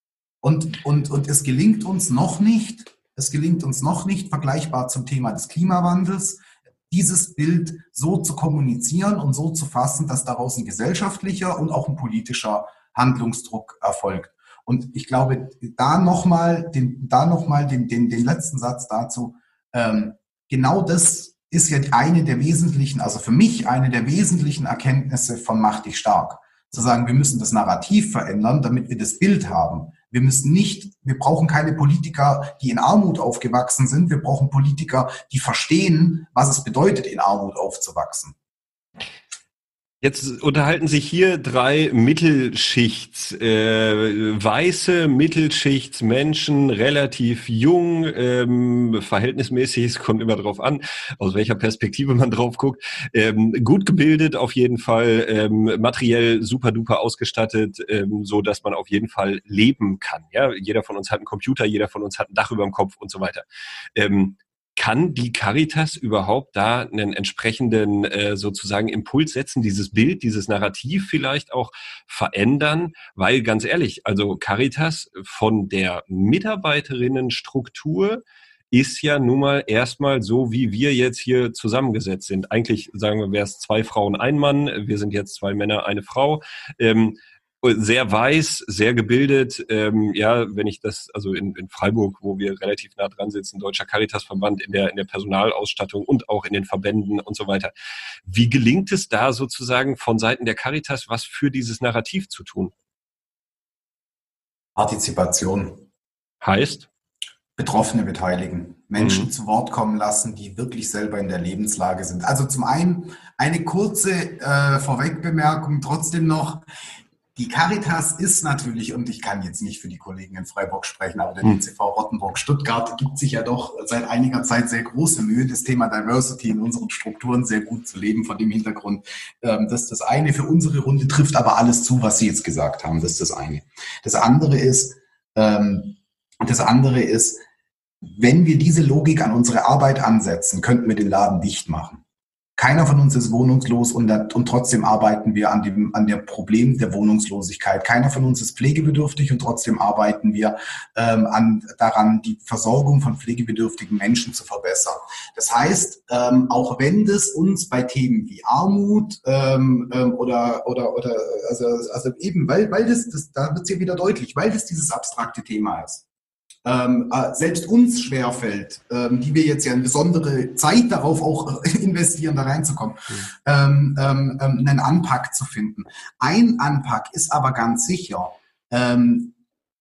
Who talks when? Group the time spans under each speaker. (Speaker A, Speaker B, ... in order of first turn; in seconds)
Speaker A: 0.4-38.4, 104.8-105.8, 107.6-116.7, 117.3-137.4, 138.1-142.0, 142.6-166.1, 166.7-179.4
Speaker B: 40.0-97.7, 98.2-102.7, 106.4-106.9, 109.0-109.3